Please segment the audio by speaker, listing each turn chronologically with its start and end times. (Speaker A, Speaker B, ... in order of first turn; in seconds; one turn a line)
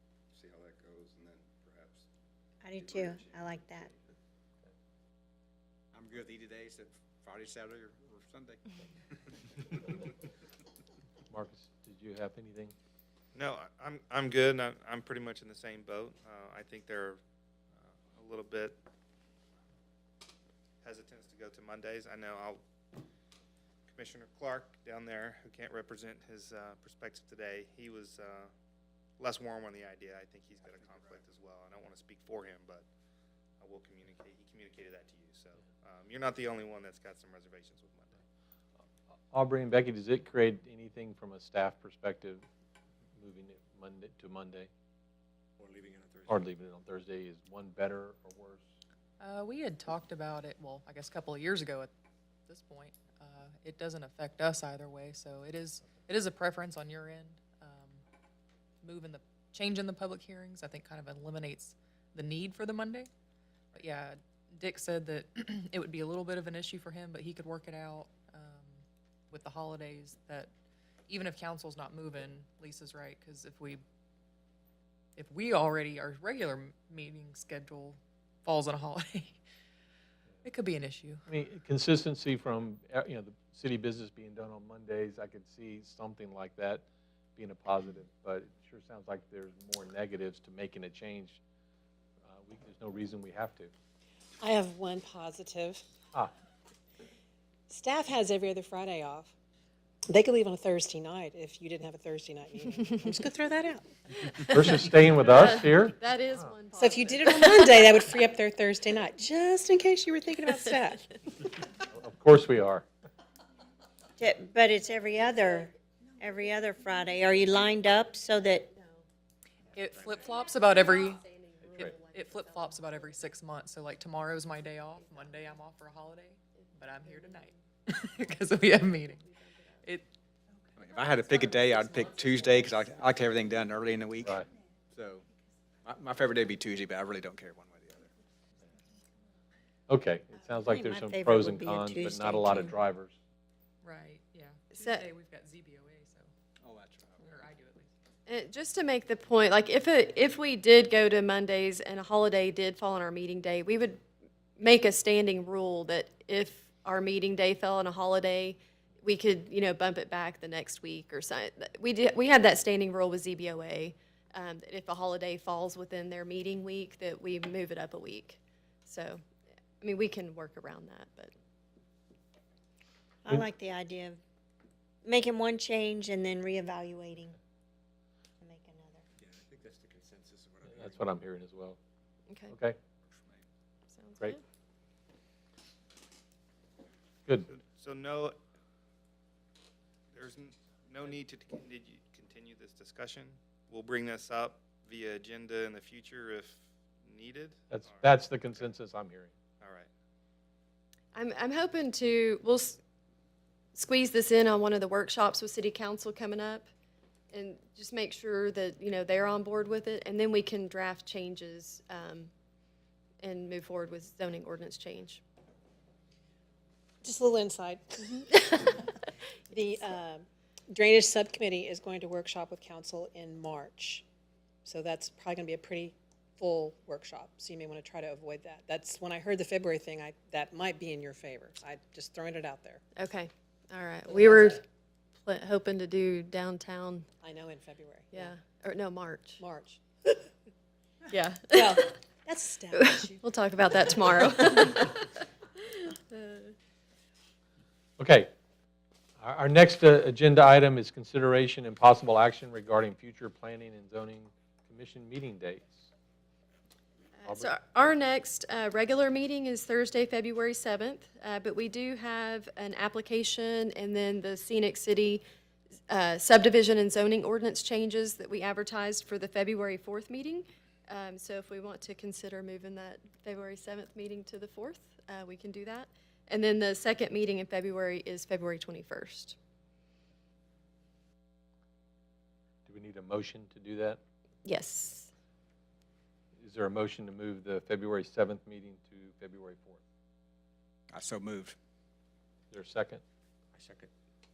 Speaker A: 0.3-2.1
Speaker B: 2.6-3.9
Speaker A: 2.7-4.1
Speaker C: 5.9-10.0
Speaker D: 11.3-12.7
Speaker E: 13.3-17.2
Speaker E: 17.8-18.8
Speaker E: 20.8-22.6
Speaker E: 23.9-28.5
Speaker E: 29.2-32.9
Speaker C: 30.6-31.2
Speaker E: 33.6-38.2
Speaker D: 39.3-42.4
Speaker D: 43.2-44.7
Speaker C: 45.6-46.4
Speaker D: 46.3-48.6
Speaker F: 49.2-51.9
Speaker F: 52.5-58.0
Speaker F: 58.8-63.1
Speaker F: 63.7-70.5
Speaker F: 71.1-73.8
Speaker F: 75.2-79.4
Speaker F: 80.4-81.2
Speaker D: 81.3-86.8
Speaker D: 87.4-91.4
Speaker D: 92.3-93.7
Speaker G: 94.4-95.8
Speaker G: 97.7-99.3
Speaker G: 100.1-103.9
Speaker H: 104.2-108.1
Speaker D: 104.4-106.5
Speaker G: 106.7-111.1
Speaker D: 111.8-112.8
Speaker B: 114.2-118.7
Speaker H: 118.5-119.1
Speaker F: 119.7-121.2
Speaker H: 120.3-123.3
Speaker D: 121.7-122.0
Speaker F: 122.1-129.3
Speaker H: 124.9-125.6
Speaker H: 126.5-127.6
Speaker H: 128.9-129.9
Speaker C: 130.8-134.4
Speaker H: 132.0-132.5
Speaker D: 134.2-134.5
Speaker C: 134.9-135.3
Speaker C: 135.8-138.1
Speaker D: 139.9-143.2
Speaker B: 140.7-142.8
Speaker F: 143.8-146.3
Speaker H: 144.7-145.1
Speaker C: 146.6-147.4
Speaker F: 147.2-147.9
Speaker H: 148.3-154.0
Speaker H: 154.6-169.2
Speaker H: 169.8-171.3
Speaker B: 173.2-174.2
Speaker B: 175.0-177.4
Speaker B: 178.4-179.1
Speaker C: 179.2-181.1
Speaker D: 180.7-181.8
Speaker D: 182.5-182.8
Speaker C: 183.0-183.5
Speaker H: 183.9-184.4
Speaker E: 187.5-188.4
Speaker E: 190.1-198.6
Speaker D: 197.7-199.3
Speaker E: 199.6-199.9
Speaker H: 201.1-202.8
Speaker H: 203.8-206.7
Speaker H: 207.3-212.3
Speaker H: 213.2-215.2
Speaker G: 217.0-218.9
Speaker G: 219.5-224.0
Speaker G: 224.7-232.8
Speaker H: 233.0-234.6
Speaker G: 234.1-234.6
Speaker H: 235.2-237.1
Speaker G: 237.2-238.3
Speaker H: 238.1-239.4
Speaker G: 239.4-240.2
Speaker H: 241.1-241.9
Speaker G: 241.5-243.8
Speaker H: 242.7-246.6
Speaker D: 248.0-248.3
Speaker D: 249.2-255.9
Speaker H: 257.2-265.2
Speaker D: 257.3-257.6
Speaker H: 265.9-279.4
Speaker D: 282.7-284.0
Speaker H: 284.4-285.1
Speaker D: 286.4-289.8
Speaker C: 290.9-291.6
Speaker D: 292.5-293.0
Speaker C: 293.6-293.9